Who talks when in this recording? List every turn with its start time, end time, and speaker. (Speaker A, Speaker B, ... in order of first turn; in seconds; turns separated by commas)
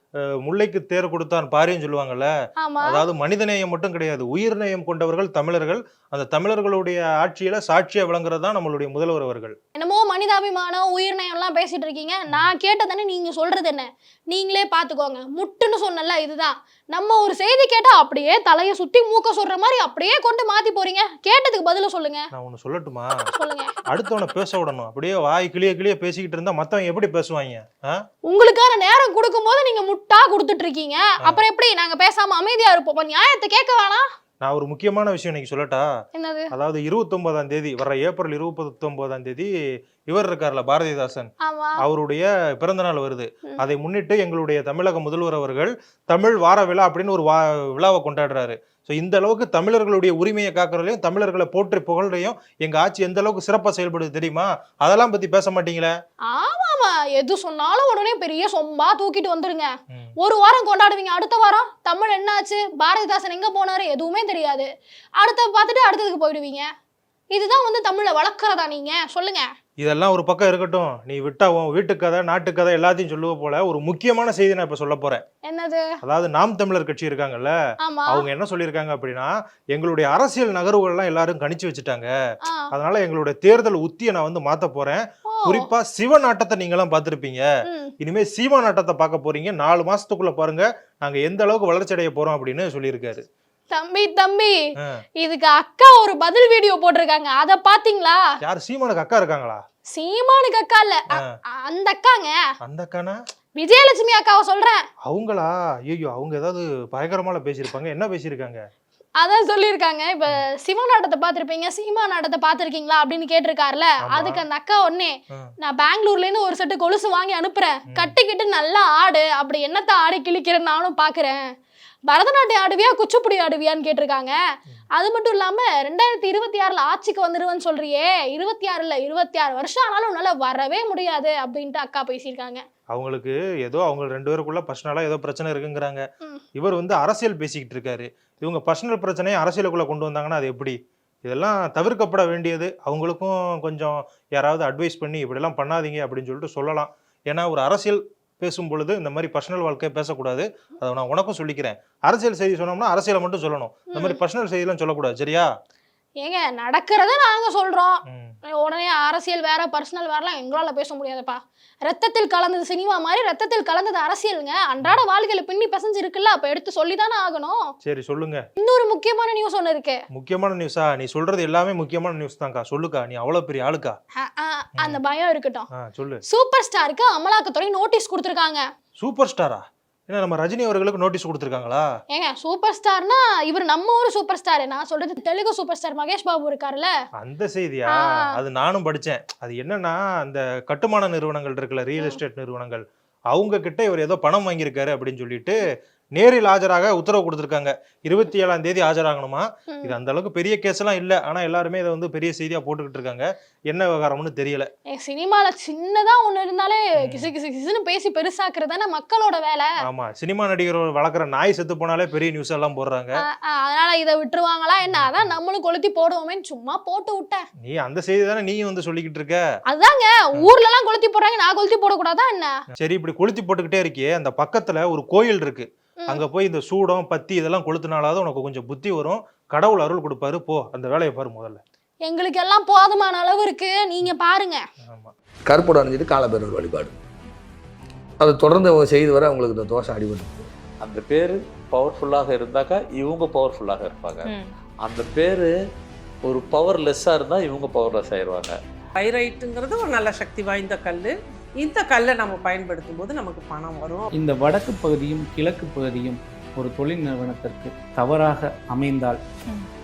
Speaker A: 0.4-2.3, Speaker B: 2.6-3.0, Speaker A: 2.8-9.6, Speaker B: 9.8-22.2, Speaker A: 22.3-23.1, Speaker B: 23.3-23.8, Speaker A: 23.9-28.0, Speaker B: 28.3-34.0, Speaker A: 34.4-35.8, Speaker B: 36.1-36.5, Speaker A: 36.5-39.5, Speaker A: 40.1-41.3, Speaker B: 41.4-41.8, Speaker A: 41.8-55.9, Speaker B: 56.3-66.7, Speaker B: 67.3-69.5, Speaker A: 69.8-75.2, Speaker B: 75.4-75.9, Speaker A: 76.0-77.5, Speaker B: 77.8-78.2, Speaker A: 78.1-82.1, Speaker A: 82.7-87.4, Speaker B: 85.3-85.7, Speaker A: 88.0-93.2, Speaker B: 93.7-94.5, Speaker B: 95.2-98.2, Speaker A: 98.4-99.6, Speaker B: 99.9-101.0, Speaker B: 101.6-102.3, Speaker A: 102.6-103.2, Speaker B: 103.6-104.8, Speaker A: 105.1-108.6, Speaker B: 109.2-121.4, Speaker A: 114.0-114.4, Speaker B: 122.1-124.3, Speaker B: 125.0-132.6, Speaker A: 132.9-136.0, Speaker A: 136.6-140.7, Speaker A: 141.2-155.5, Speaker B: 153.9-154.2, Speaker B: 156.2-158.0, Speaker A: 158.1-158.3, Speaker B: 158.6-167.6, Speaker A: 167.8-168.4, Speaker B: 168.6-170.0, Speaker A: 170.1-174.0, Speaker B: 174.2-175.7, Speaker A: 175.8-176.2, Speaker B: 176.3-178.6, Speaker A: 179.0-181.9, Speaker B: 182.1-186.9, Speaker A: 187.2-195.6, Speaker B: 187.9-188.3, Speaker A: 196.2-204.7, Speaker B: 199.7-199.9, Speaker B: 204.9-209.7, Speaker A: 207.0-207.3, Speaker A: 209.8-213.2, Speaker B: 213.3-217.4, Speaker A: 214.9-215.3, Speaker A: 217.6-219.4, Speaker B: 219.7-222.5, Speaker A: 222.8-231.6, Speaker B: 232.1-234.6, Speaker A: 234.8-235.1, Speaker C: 235.5-236.9, Speaker C: 238.2-240.4, Speaker D: 240.8-245.5, Speaker D: 246.2-248.6, Speaker E: 248.9-254.1, Speaker F: 254.1-259.2